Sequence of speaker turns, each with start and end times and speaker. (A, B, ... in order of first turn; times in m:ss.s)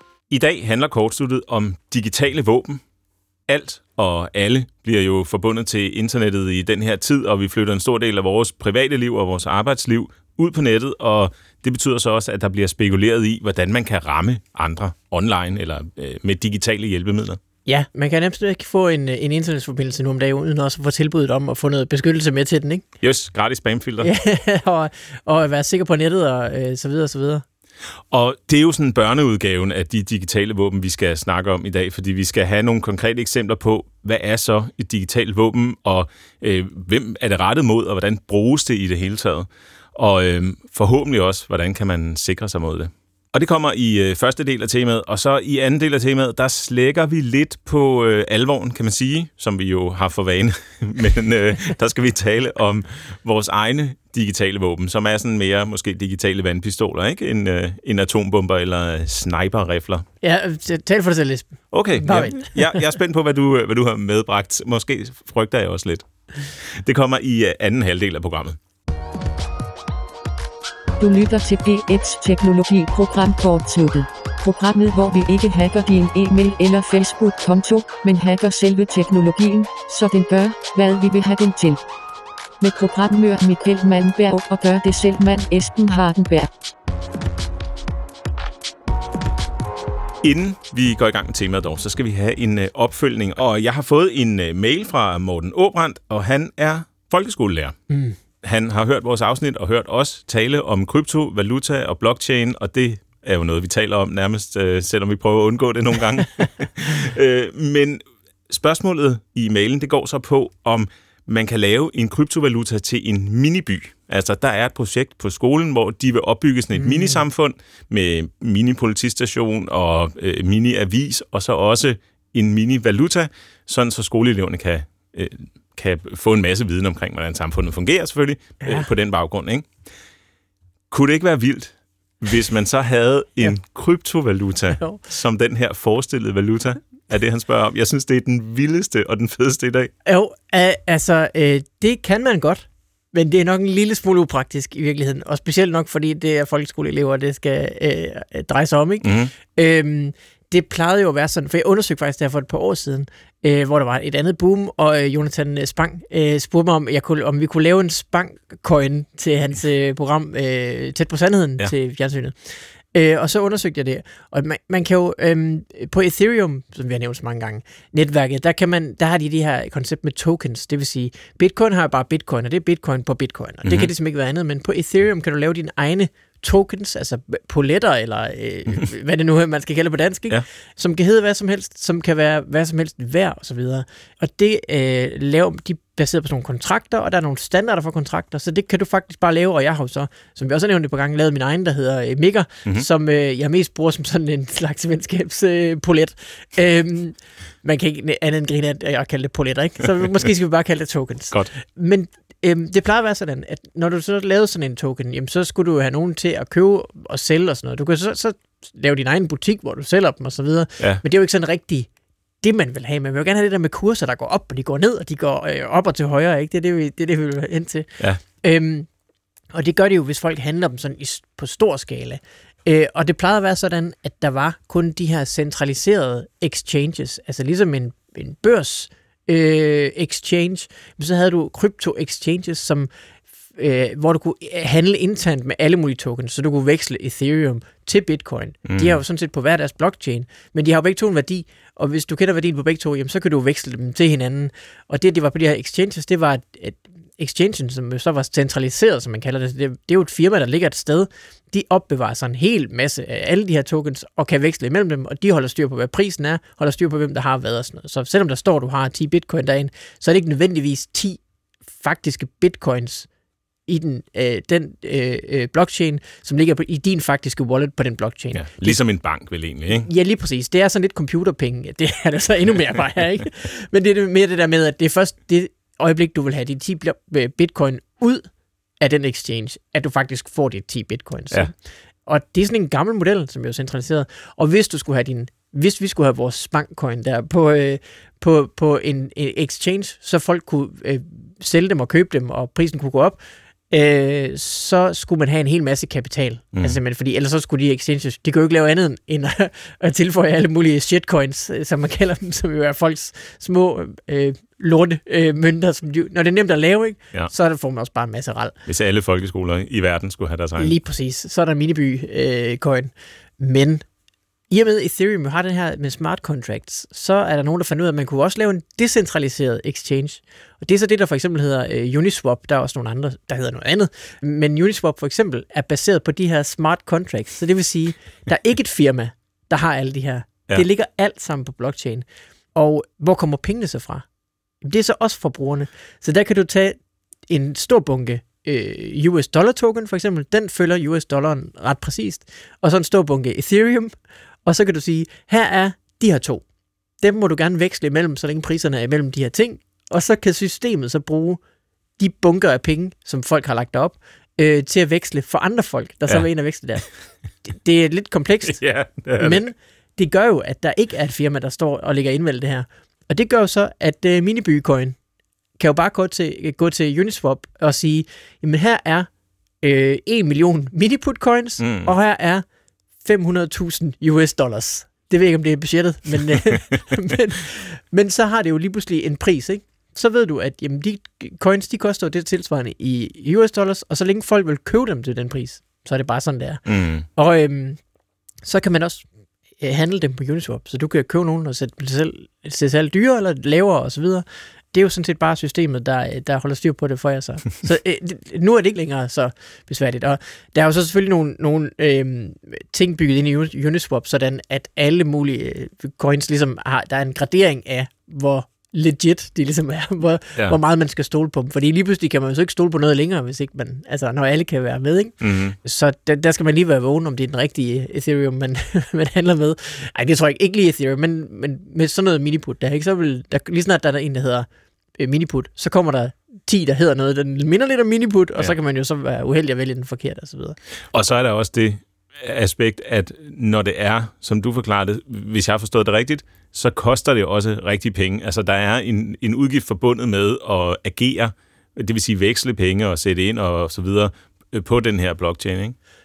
0:00.3-0:02.8 A
0:03.5-0:17.4 A
0:17.6-0:22.8 B
0:23.0-0:24.1 A
0:24.0-0:27.4 B
0:28.1-1:00.0 A
1:00.2-1:02.8 B
1:01.7-1:08.6 A
1:11.0-1:21.8 C
1:22.6-1:26.5 C
1:30.2-1:37.7 A
1:37.9-1:38.2 B
1:38.4-2:09.6 A
1:56.8-1:57.2 B
2:08.6-2:08.9 B
2:10.9-2:19.9 A
2:20.0-3:31.9 B
2:29.0-2:29.3 A
2:53.6-2:53.9 A
3:32.4-3:38.9 B
3:39.5-3:52.9 B
3:53.5-4:21.2 B
3:58.6-3:59.0 A
4:21.7-4:23.1 B
4:23.7-4:28.8 B
4:28.3-4:29.9 A
4:29.7-4:38.3 B
4:38.8-4:41.5 B
4:42.1-5:08.5 B
5:08.6-5:10.7 A
5:10.6-5:13.8 B
5:14.5-5:34.0 B
5:34.6-5:36.8 B
5:37.3-5:43.9 B
5:44.4-5:46.4 B
5:47.0-5:51.4 B
5:52.0-5:56.9 B
5:57.4-5:58.6 B
5:58.4-5:59.4 A
5:59.2-6:05.0 B
6:05.6-6:09.1 B
6:09.6-6:12.4 B
6:11.6-6:11.9 A
6:13.0-6:27.8 B
6:26.6-6:27.0 A
6:28.4-6:29.0 B
6:29.6-7:04.5 B
6:55.2-6:55.6 A
7:05.0-7:10.6 B
7:10.9-7:25.8 A